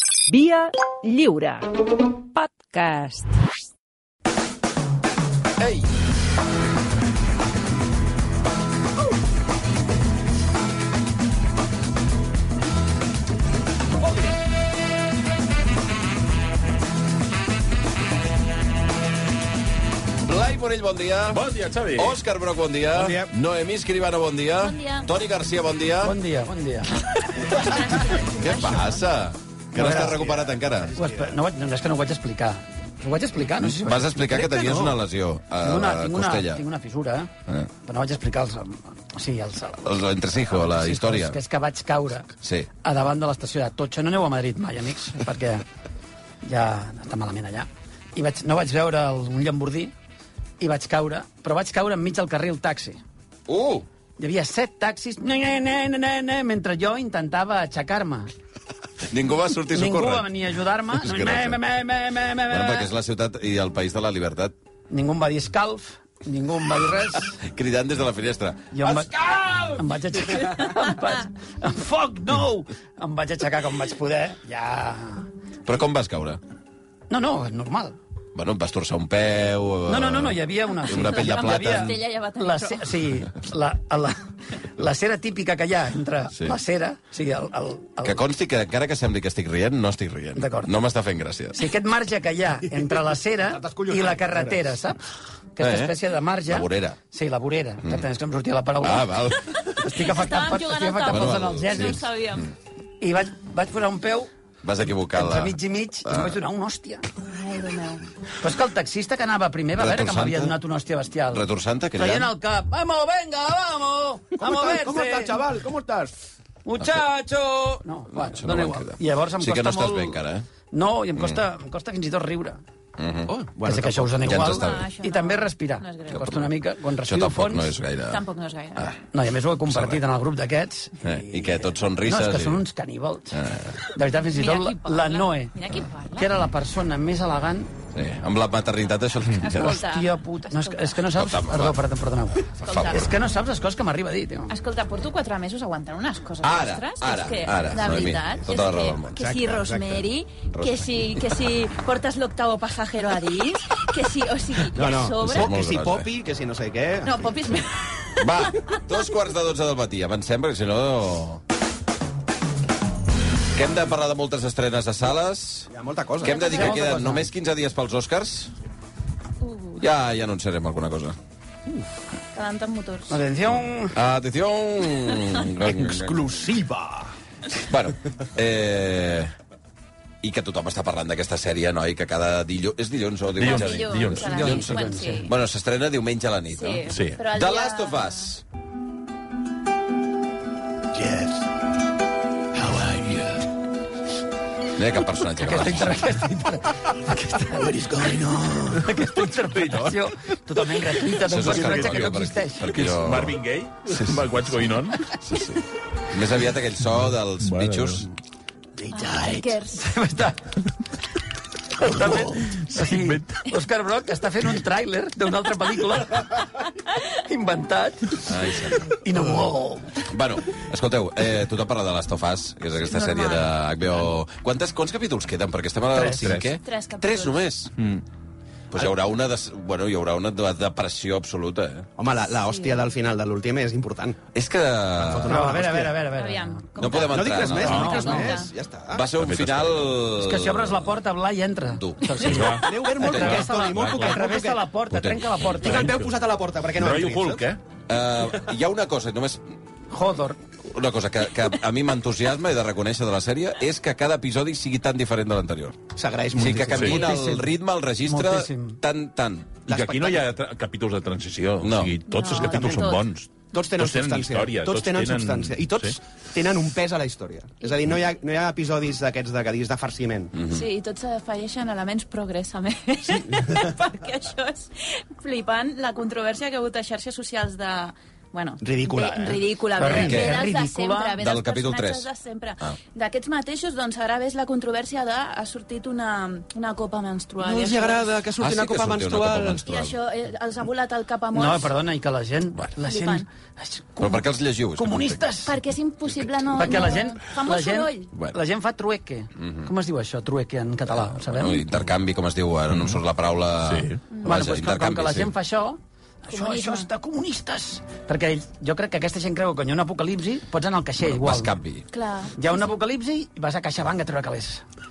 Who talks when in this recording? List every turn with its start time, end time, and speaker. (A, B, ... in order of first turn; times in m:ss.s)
0:00.3-0:01.7 A
0:02.3-0:03.3 A
0:05.6-0:05.9 B
0:20.2-0:26.2 B
0:21.3-0:22.2 C
0:22.9-0:23.3 D
0:24.6-0:25.1 E
0:26.0-0:27.2 F
0:27.4-0:29.1 E
0:27.6-0:31.0 B
0:29.8-0:31.3 D
0:29.8-0:30.1 F
0:31.0-0:34.8 F
0:33.6-0:36.6 B
0:34.4-0:34.9 D
0:35.6-0:37.3 F
0:37.8-0:39.9 F
0:39.8-0:41.4 B
0:40.5-0:42.3 F
0:42.4-0:42.7 B
0:42.8-0:45.6 F
0:46.4-0:49.9 F
0:50.6-0:53.0 F
0:53.5-0:53.9 B
0:54.2-0:58.3 F
0:59.1-1:00.3 B
0:59.7-1:02.9 F
1:00.9-1:01.6 B
1:02.5-1:04.6 B
1:04.9-1:07.4 F
1:07.3-1:09.7 B
1:08.7-1:15.3 F
1:15.6-1:16.4 B
1:17.1-1:18.0 F
1:18.3-1:22.0 B
1:19.9-1:28.2 F
1:20.8-1:22.9 E
1:28.0-1:31.6 B
1:30.4-1:30.7 F
1:31.5-1:35.0 F
1:33.5-1:34.6 D
1:35.6-1:39.1 F
1:35.6-1:36.0 B
1:36.5-1:37.0 B
1:38.8-1:40.0 B
1:39.7-1:42.0 F
1:40.1-1:42.5 E
1:41.1-1:42.0 B
1:43.0-1:44.3 F
1:44.6-1:46.4 B
1:45.1-1:47.0 F
1:47.2-1:48.0 E
1:48.4-1:55.4 F
1:49.8-1:50.6 B
1:51.3-1:52.3 B
1:54.4-1:56.1 D
1:56.6-2:02.6 F
1:58.1-2:00.4 B
2:03.0-2:03.3 B
2:03.3-2:04.3 D
2:03.6-2:07.8 F
2:04.2-2:04.9 B
2:04.4-2:06.2 E
2:06.1-2:08.2 B
2:08.1-2:08.9 E
2:09.1-2:15.5 F
2:09.7-2:10.0 B
2:11.0-2:12.6 B
2:13.3-2:13.8 B
2:14.2-2:16.3 E
2:16.2-2:17.7 F
2:17.9-2:19.8 B
2:19.4-2:21.0 E
2:19.6-2:24.5 F
2:21.1-2:21.8 B
2:22.4-2:23.1 B
2:22.6-2:23.2 E
2:24.5-2:35.5 E
2:26.4-2:29.3 B
2:29.1-2:30.0 D
2:30.5-2:30.8 B
2:34.7-2:37.6 D
2:35.2-2:36.1 B
2:37.0-2:38.8 E
2:38.2-2:41.4 B
2:43.5-2:45.7 B
2:45.7-2:46.6 D
2:46.2-2:46.8 E
2:46.2-2:48.5 B
2:46.5-2:47.3 F
2:49.4-2:49.8 E
2:49.8-2:51.2 B
2:52.3-2:53.2 E
2:53.1-2:54.0 F
2:53.9-2:56.4 B
2:55.6-2:57.1 D
2:57.6-2:59.3 B
3:00.2-3:08.4 B
3:03.4-3:04.3 C
3:03.4-3:05.3 E
3:04.2-3:05.3 F
3:06.5-3:08.1 E
3:06.9-3:07.2 C
3:10.9-3:11.4 D
3:12.6-3:13.1 D
3:14.8-3:16.2 B
3:15.4-3:22.6 F
3:17.6-3:18.8 D
3:19.5-3:20.1 C
3:21.1-3:23.4 B
3:22.7-3:25.1 C
3:23.9-3:24.3 B
3:25.1-3:28.0 B
3:27.4-3:28.0 C
3:28.9-3:29.8 E
3:28.9-3:30.6 F
3:31.8-3:36.4 F
3:31.9-3:33.4 C
3:37.2-3:38.3 F
3:38.2-3:38.9 B
3:38.9-3:40.0 F
3:40.0-3:47.7 B
3:42.9-3:43.5 E
3:45.9-3:46.3 F
3:46.2-3:46.6 C
3:46.6-3:47.5 E
3:48.7-3:51.9 B
3:52.0-3:54.2 D
3:52.4-3:52.8 E
3:54.3-3:55.7 B
3:55.0-3:56.0 D
3:55.3-3:56.6 F
3:56.1-3:58.5 E
3:56.8-3:58.1 B
3:56.9-3:59.1 D
3:57.6-3:58.0 C
3:57.6-3:58.3 F
3:58.9-4:00.9 B
3:59.2-3:59.9 C
4:00.1-4:05.9 F
4:01.7-4:03.4 B
4:02.3-4:04.2 C
4:02.6-4:04.6 D
4:04.9-4:05.6 B
4:05.6-4:07.4 D
4:05.6-4:06.1 C
4:06.7-4:07.6 C
4:07.9-4:09.4 B
4:09.9-4:10.4 F
4:10.6-4:15.8 B
4:15.9-4:17.2 D
4:16.3-4:19.6 B
4:16.8-4:17.0 C
4:17.1-4:17.5 F
4:18.0-4:18.8 F
4:19.7-4:20.3 D
4:19.7-4:25.9 C
4:21.6-4:22.0 B
4:22.1-4:23.0 E
4:22.2-4:23.0 D
4:23.5-4:30.4 D
4:30.3-4:30.6 B
4:30.5-4:48.2 E
4:33.4-4:33.6 D
4:38.6-4:39.4 D
4:39.8-4:41.2 F
4:39.9-4:40.5 B
4:41.2-4:42.1 B
4:47.4-4:49.6 D
4:48.4-4:50.0 B
4:49.6-4:51.7 E
4:51.3-4:55.6 F
4:52.8-4:53.2 E
4:54.0-4:55.2 B
4:55.4-4:58.1 E
4:56.5-5:01.6 F
4:59.4-4:59.7 B
5:00.9-5:05.3 B
5:02.7-5:03.0 C
5:03.6-5:04.0 C
5:04.2-5:11.6 F
5:06.3-5:06.9 E
5:11.0-5:11.8 B
5:11.9-5:12.5 E
5:12.4-5:14.6 F